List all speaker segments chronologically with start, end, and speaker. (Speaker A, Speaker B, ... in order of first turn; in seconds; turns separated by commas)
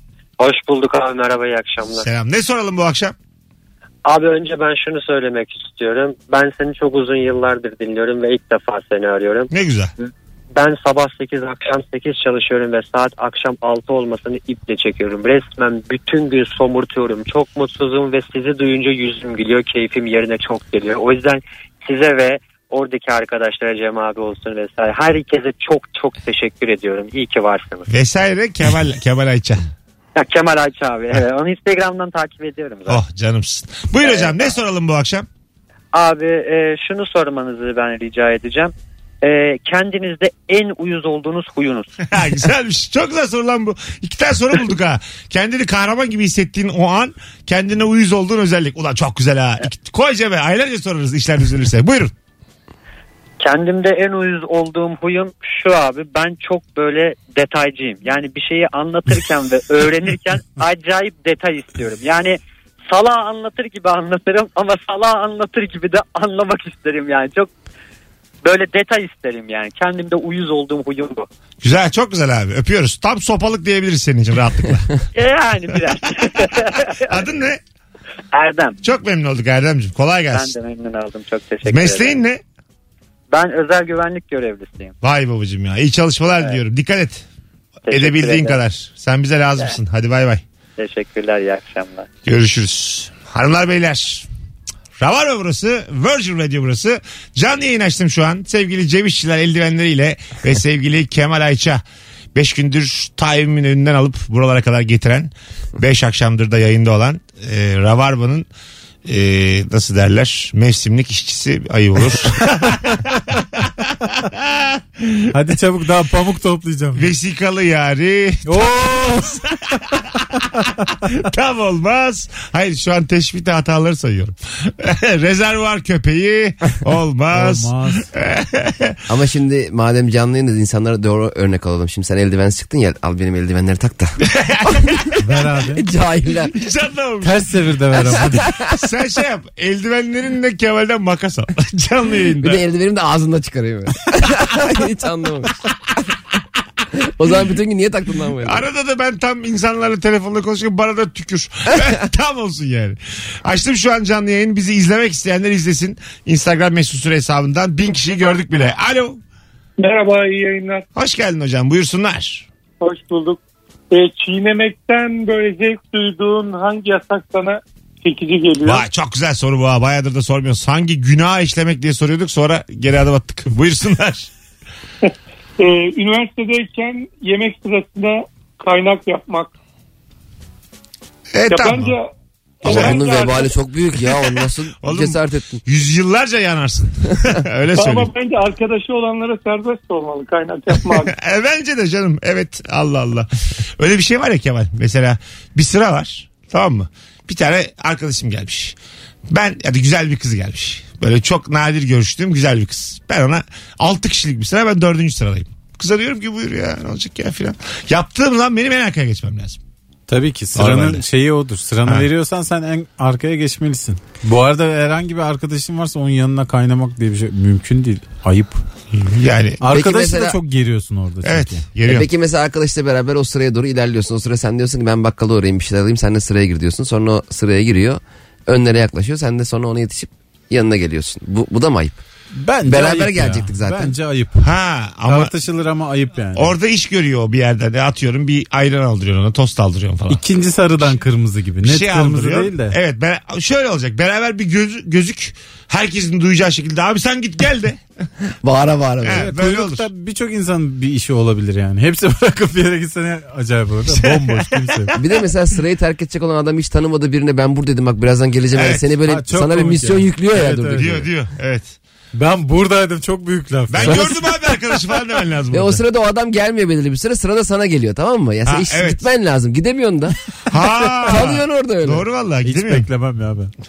Speaker A: 0.4-2.1, Speaker B: 1.9-3.1, Speaker A: 4.0-9.5, Speaker B: 9.5-9.9, Speaker A: 10.5-27.9, Speaker B: 27.9-29.6, Speaker A: 30.2-33.0, Speaker B: 32.9-35.3, Speaker A: 34.0-34.6, Speaker A: 35.9-42.0, Speaker B: 42.1-52.1, Speaker A: 53.4-67.5, Speaker A: 68.4-71.3, Speaker B: 71.6-75.0, Speaker A: 75.1-77.2, Speaker B: 76.5-77.6, Speaker A: 78.3-78.8, Speaker B: 78.8-80.5, Speaker A: 80.3-82.2, Speaker B: 81.7-82.4, Speaker A: 83.3-84.9, Speaker B: 85.0-87.2, Speaker A: 87.9-88.6, Speaker B: 87.9-90.4, Speaker A: 90.8-92.1, Speaker B: 92.2-94.3, Speaker B: 95.0-101.8, Speaker B: 102.3-108.5, Speaker B: 109.1-115.3, Speaker C: 115.3-117.1, Speaker B: 117.0-120.0, Speaker C: 118.5-119.4, Speaker B: 121.1-129.0, Speaker C: 127.3-128.1, Speaker D: 129.1-135.0, Speaker B: 134.3-135.1, Speaker C: 135.2-135.9, Speaker D: 135.7-136.5, Speaker B: 136.5-137.4, Speaker C: 137.2-138.5, Speaker D: 138.1-138.7, Speaker B: 138.2-142.6, Speaker D: 142.4-145.6, Speaker D: 147.0-148.7, Speaker B: 148.4-159.2, Speaker E: 159.8-160.8, Speaker B: 160.9-162.5, Speaker E: 162.8-163.4, Speaker E: 163.9-168.8, Speaker B: 168.7-174.3, Speaker E: 175.1-179.5, Speaker B: 181.3-181.9, Speaker E: 181.5-182.1, Speaker E: 182.6-183.6, Speaker B: 182.6-183.2, Speaker D: 182.6-185.6, Speaker B: 184.8-188.1, Speaker E: 187.8-191.1, Speaker B: 191.0-198.8, Speaker B: 199.3-209.6, Speaker C: 210.1-218.6, Speaker B: 210.6-211.0, Speaker B: 218.9-219.6, Speaker C: 219.6-221.7, Speaker D: 219.7-220.4, Speaker B: 221.2-222.1, Speaker D: 221.9-232.0, Speaker C: 232.3-234.5, Speaker D: 232.7-234.0, Speaker B: 234.4-235.3, Speaker C: 235.1-236.6, Speaker B: 236.3-240.2, Speaker C: 240.1-242.8, Speaker B: 241.6-247.8, Speaker D: 248.4-249.3, Speaker B: 249.0-249.9, Speaker C: 249.1-255.0, Speaker B: 253.9-254.9, Speaker D: 255.0-261.1, Speaker B: 258.6-258.8, Speaker C: 259.1-261.0, Speaker B: 260.8-261.8, Speaker C: 262.1-264.1, Speaker B: 263.7-265.8, Speaker D: 263.8-264.6, Speaker D: 265.5-270.2, Speaker B: 268.5-269.1, Speaker B: 270.5-272.9, Speaker D: 270.8-272.1, Speaker C: 272.4-273.5